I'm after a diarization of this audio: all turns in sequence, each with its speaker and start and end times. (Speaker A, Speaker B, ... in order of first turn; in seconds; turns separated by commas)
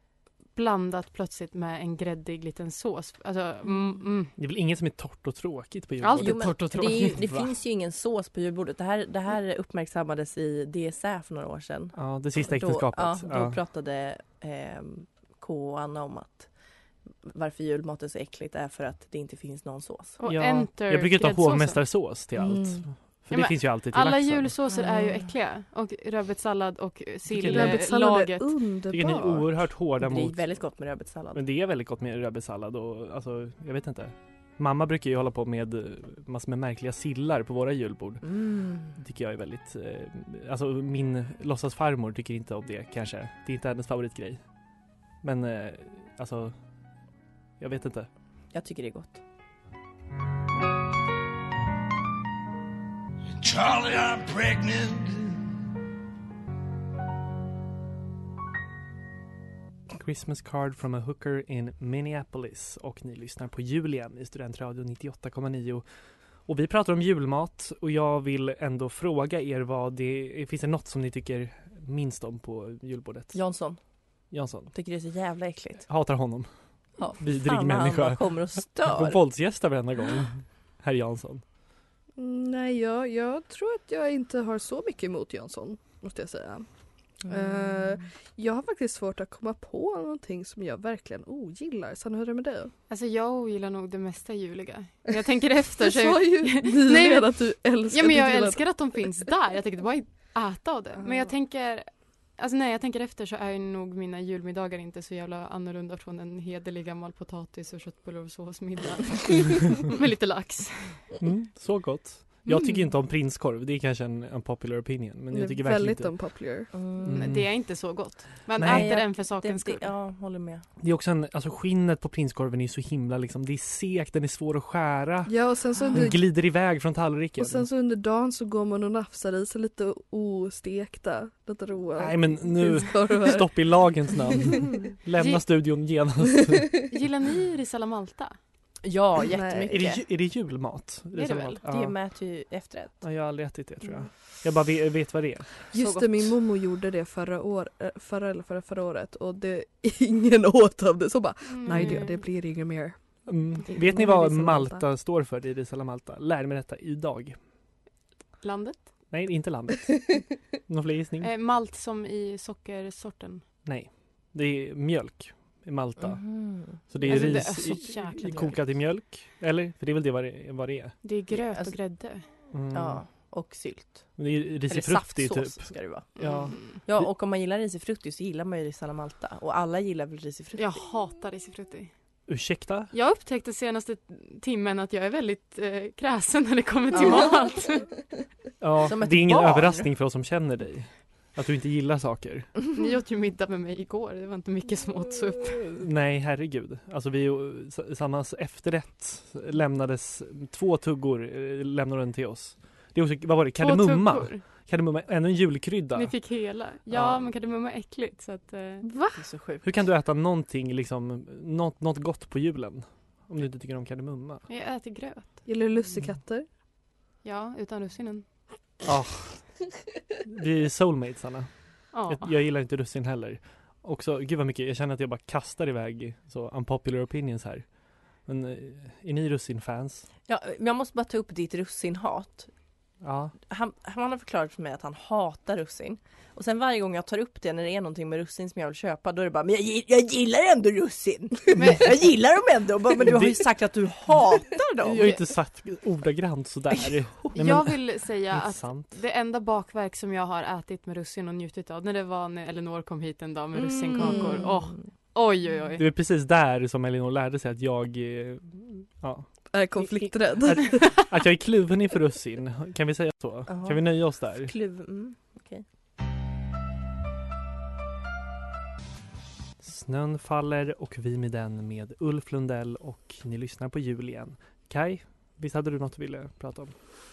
Speaker A: 0.5-4.3, Speaker B: 4.3-7.1, Speaker A: 6.0-7.5, Speaker C: 6.2-16.5, Speaker B: 11.9-13.6, Speaker C: 17.2-20.2, Speaker A: 20.2-21.8, Speaker B: 20.2-24.5, Speaker D: 22.4-22.8, Speaker A: 23.3-28.5, Speaker C: 24.7-25.3, Speaker B: 27.3-27.8, Speaker D: 27.4-29.5, Speaker B: 28.9-30.4, Speaker C: 30.0-31.4, Speaker B: 31.3-44.4, Speaker C: 38.2-39.0, Speaker B: 45.2-46.5, Speaker B: 47.6-48.1, Speaker C: 48.5-49.2, Speaker E: 53.4-55.4, Speaker B: 59.9-65.8, Speaker B: 66.5-73.7, Speaker C: 73.3-73.8, Speaker B: 74.3-74.7, Speaker C: 74.7-75.9, Speaker B: 75.9-76.5, Speaker C: 77.0-79.2, Speaker B: 77.0-81.4, Speaker D: 82.2-86.7, Speaker D: 87.2-92.7, Speaker C: 87.3-88.1, Speaker A: 92.9-97.3, Speaker D: 95.8-99.2, Speaker A: 97.8-111.1, Speaker D: 101.0-101.3, Speaker B: 111.2-116.4, Speaker A: 112.5-112.8, Speaker D: 115.3-116.7, Speaker C: 116.7-117.3, Speaker B: 117.0-117.7, Speaker A: 117.0-119.9, Speaker B: 118.6-119.0, Speaker C: 118.6-120.7, Speaker B: 120.8-127.7, Speaker D: 125.2-126.2, Speaker D: 127.4-134.3, Speaker B: 132.0-136.8, Speaker A: 135.2-135.4, Speaker A: 136.9-138.4, Speaker C: 138.8-140.0, Speaker D: 139.3-139.9, Speaker B: 139.7-141.9, Speaker A: 141.1-141.6, Speaker C: 141.7-143.0, Speaker B: 143.0-145.7, Speaker D: 145.7-154.8, Speaker C: 145.7-146.3, Speaker A: 151.5-152.2, Speaker B: 153.2-157.4, Speaker A: 158.4-158.9, Speaker B: 159.1-161.3, Speaker A: 161.2-163.4, Speaker B: 163.6-171.0, Speaker C: 166.0-167.2, Speaker A: 167.0-168.6, Speaker A: 171.0-172.3, Speaker C: 171.4-171.8, Speaker B: 172.5-173.3, Speaker C: 172.7-174.2, Speaker B: 174.2-177.1, Speaker C: 174.7-180.8, Speaker A: 176.2-176.6, Speaker A: 180.6-181.9, Speaker B: 182.3-182.9, Speaker A: 182.9-187.9, Speaker B: 188.6-192.6, Speaker C: 188.8-189.9, Speaker A: 192.7-195.7, Speaker B: 195.6-206.3, Speaker A: 203.6-204.4, Speaker A: 205.9-208.8, Speaker D: 208.8-209.2, Speaker C: 209.2-209.6, Speaker B: 209.6-214.4, Speaker A: 214.5-215.4, Speaker D: 215.4-216.4, Speaker A: 217.2-218.2, Speaker B: 218.8-219.7, Speaker B: 220.2-230.1, Speaker A: 221.9-222.3, Speaker C: 230.2-232.5, Speaker B: 233.0-233.3, Speaker C: 233.5-245.2, Speaker A: 241.6-241.8, Speaker B: 243.0-243.4, Speaker B: 244.8-248.9, Speaker A: 247.3-255.8, Speaker C: 253.6-254.9, Speaker D: 253.9-254.4, Speaker B: 255.8-264.5, Speaker D: 259.5-260.9, Speaker C: 263.5-265.6, Speaker B: 269.6-276.7